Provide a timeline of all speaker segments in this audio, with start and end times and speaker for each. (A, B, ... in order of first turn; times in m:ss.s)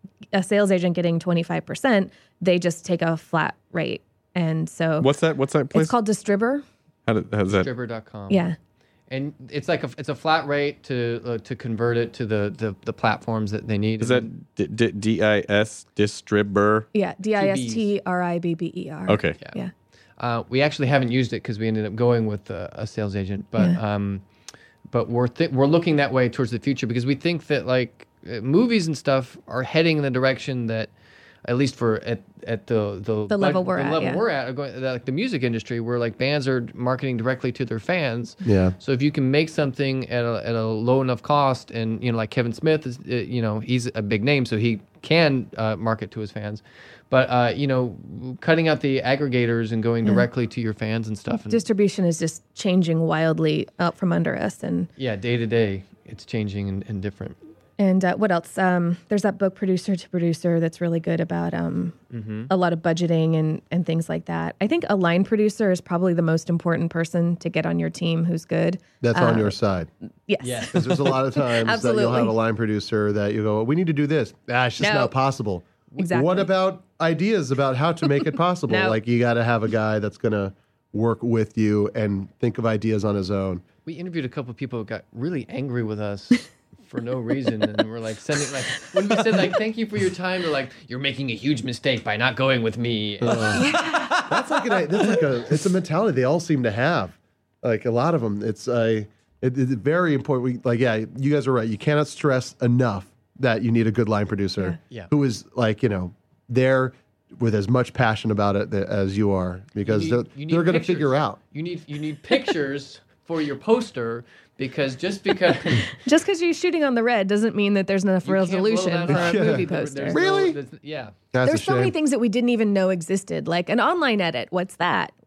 0:00.3-0:05.1 A
0:05.0-0:06.0 B
0:05.7-0:06.6 A
0:07.1-0:07.7 B
0:07.5-0:08.5 C
0:08.3-0:08.6 A
0:09.1-0:14.3 C
0:14.0-0:16.9 B
0:16.9-0:19.7 A
0:17.4-0:17.9 C
0:19.1-0:19.4 B
0:20.2-0:24.2 C
0:24.9-0:30.9 C
0:31.4-0:51.6 C
0:33.3-0:34.2 A
0:38.4-0:38.7 D
0:51.5-0:54.9 A
0:55.0-0:57.4 C
0:57.8-1:02.0 A
1:02.1-1:02.5 C
1:02.5-1:09.6 A
1:09.0-1:09.9 D
1:10.3-1:12.4 A
1:10.4-1:10.9 C
1:10.7-1:23.6 D
1:14.8-1:15.1 A
1:16.0-1:16.5 A
1:18.7-1:19.0 A
1:23.8-1:33.8 C
1:33.2-1:51.4 D
1:33.6-1:34.1 A
1:33.9-1:34.4 B
1:49.8-1:55.9 C
1:55.9-2:00.2 A
1:58.2-2:01.2 C
1:59.1-2:00.6 D
2:01.3-2:01.9 D
2:01.4-2:05.1 A